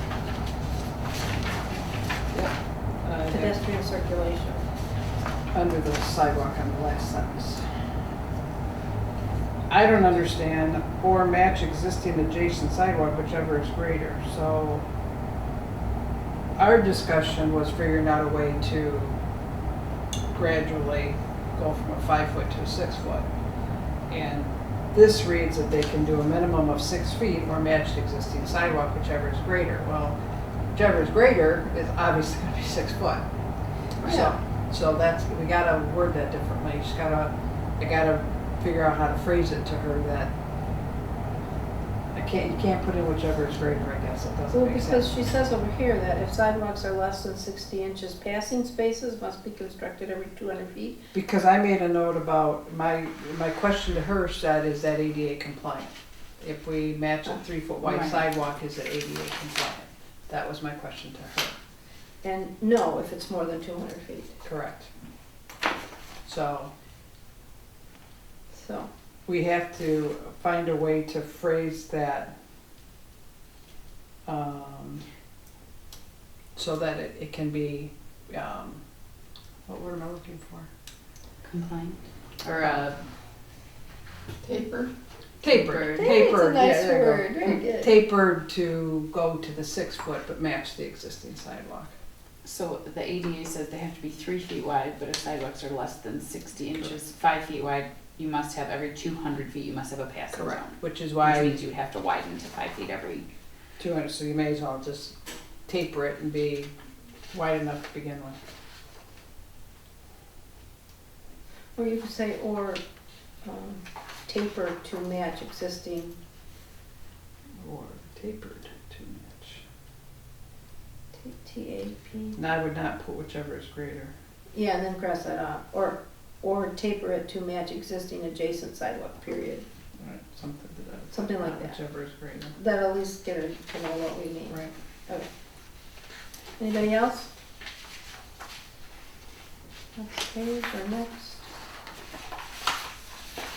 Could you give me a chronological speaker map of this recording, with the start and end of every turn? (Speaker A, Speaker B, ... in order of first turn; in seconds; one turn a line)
Speaker A: 3.0-3.6
Speaker B: 3.3-4.6
Speaker A: 5.5-7.7
Speaker A: 9.7-14.8
Speaker A: 16.6-19.2
Speaker A: 20.3-23.3
Speaker A: 24.1-30.2
Speaker A: 30.7-33.3
Speaker C: 34.0-34.3
Speaker A: 34.0-40.3
Speaker A: 42.1-45.1
Speaker B: 44.5-51.0
Speaker A: 51.1-61.6
Speaker C: 57.8-58.2
Speaker B: 62.2-64.4
Speaker A: 64.4-64.9
Speaker A: 66.2-66.7
Speaker B: 68.5-68.9
Speaker A: 69.3-72.3
Speaker A: 74.3-75.0
Speaker A: 76.6-78.8
Speaker A: 79.7-80.7
Speaker C: 81.5-83.0
Speaker C: 84.4-84.9
Speaker A: 85.4-91.9
Speaker C: 85.5-86.1
Speaker B: 85.9-88.0
Speaker C: 92.4-103.3
Speaker A: 100.3-101.6
Speaker A: 103.8-105.2
Speaker A: 105.7-106.7
Speaker A: 107.3-108.4
Speaker B: 111.8-112.8
Speaker B: 113.4-116.2
Speaker A: 117.6-119.6
Speaker B: 121.1-122.4
Speaker A: 122.4-124.1
Speaker B: 124.5-129.7
Speaker A: 130.0-132.6
Speaker B: 131.1-131.8
Speaker B: 132.6-135.3
Speaker B: 136.6-137.3
Speaker B: 140.0-141.5